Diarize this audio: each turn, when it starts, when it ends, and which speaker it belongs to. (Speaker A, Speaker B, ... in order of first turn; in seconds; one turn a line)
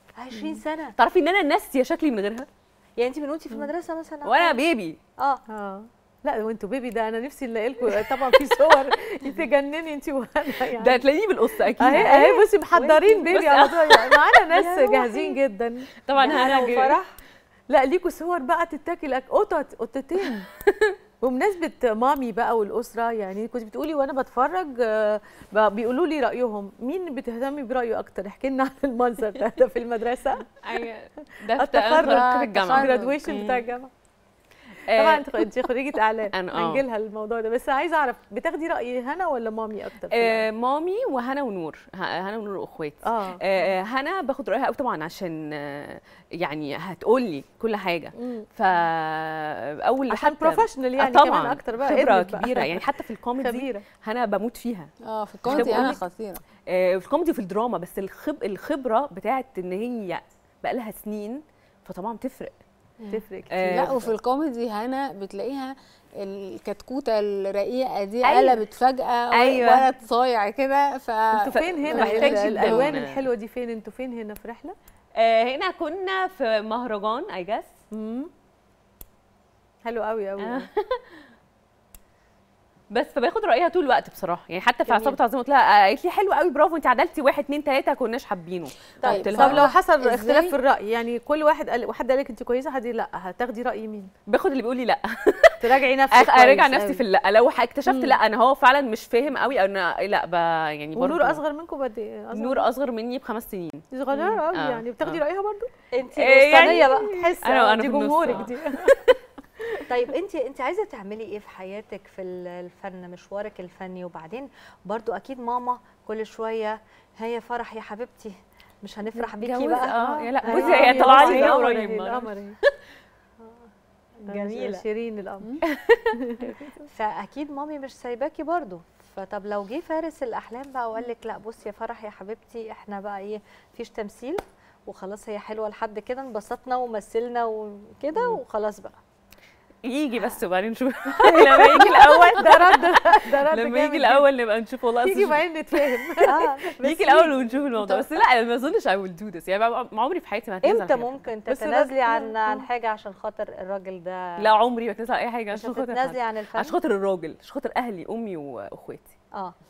Speaker A: 0.2-0.9
Speaker B: 0.3-0.6
Speaker C: 1.0-2.5
Speaker A: 3.0-4.5
Speaker C: 4.2-5.0
Speaker B: 5.5-11.0
Speaker C: 10.6-14.4
Speaker B: 11.8-16.6
Speaker A: 11.9-12.4
Speaker A: 14.5-15.4
Speaker C: 16.0-17.0
Speaker A: 16.2-17.1
Speaker B: 17.7-20.5
Speaker B: 21.2-30.9
Speaker C: 30.6-33.0
Speaker B: 31.5-33.9
Speaker D: 32.0-33.7
Speaker C: 34.9-35.5
Speaker B: 34.9-40.4
Speaker C: 36.3-36.8
Speaker C: 40.1-54.9
Speaker B: 43.0-43.4
Speaker B: 48.1-48.5
Speaker B: 50.1-53.8
Speaker D: 55.0-56.4
Speaker C: 55.5-56.0
Speaker B: 55.5-56.0
Speaker C: 56.7-62.5
Speaker B: 63.1-63.7
Speaker C: 63.5-64.1
Speaker D: 63.6-73.0
Speaker C: 68.2-68.7
Speaker C: 69.3-69.9
Speaker B: 71.3-74.7
Speaker C: 71.8-73.2
Speaker C: 75.2-77.7
Speaker B: 77.9-78.3
Speaker B: 79.8-80.7
Speaker C: 80.4-81.0
Speaker C: 82.9-89.7
Speaker D: 89.0-90.5
Speaker B: 89.0-94.1
Speaker C: 94.3-101.4
Speaker B: 95.6-97.0
Speaker B: 97.8-98.2
Speaker B: 101.0-102.7
Speaker C: 102.3-105.2
Speaker B: 103.9-105.7
Speaker A: 105.9-107.1
Speaker C: 106.2-109.2
Speaker B: 106.5-108.9
Speaker A: 109.9-121.7
Speaker C: 119.4-122.3
Speaker B: 120.4-122.6
Speaker A: 124.2-124.8
Speaker B: 124.2-125.6
Speaker C: 125.8-126.1
Speaker B: 126.1-126.8
Speaker A: 126.9-139.0
Speaker C: 139.8-151.2
Speaker B: 141.2-144.3
Speaker B: 145.0-148.1
Speaker A: 146.3-146.7
Speaker A: 150.6-154.4
Speaker B: 151.5-152.7
Speaker C: 154.4-159.2
Speaker A: 155.5-156.7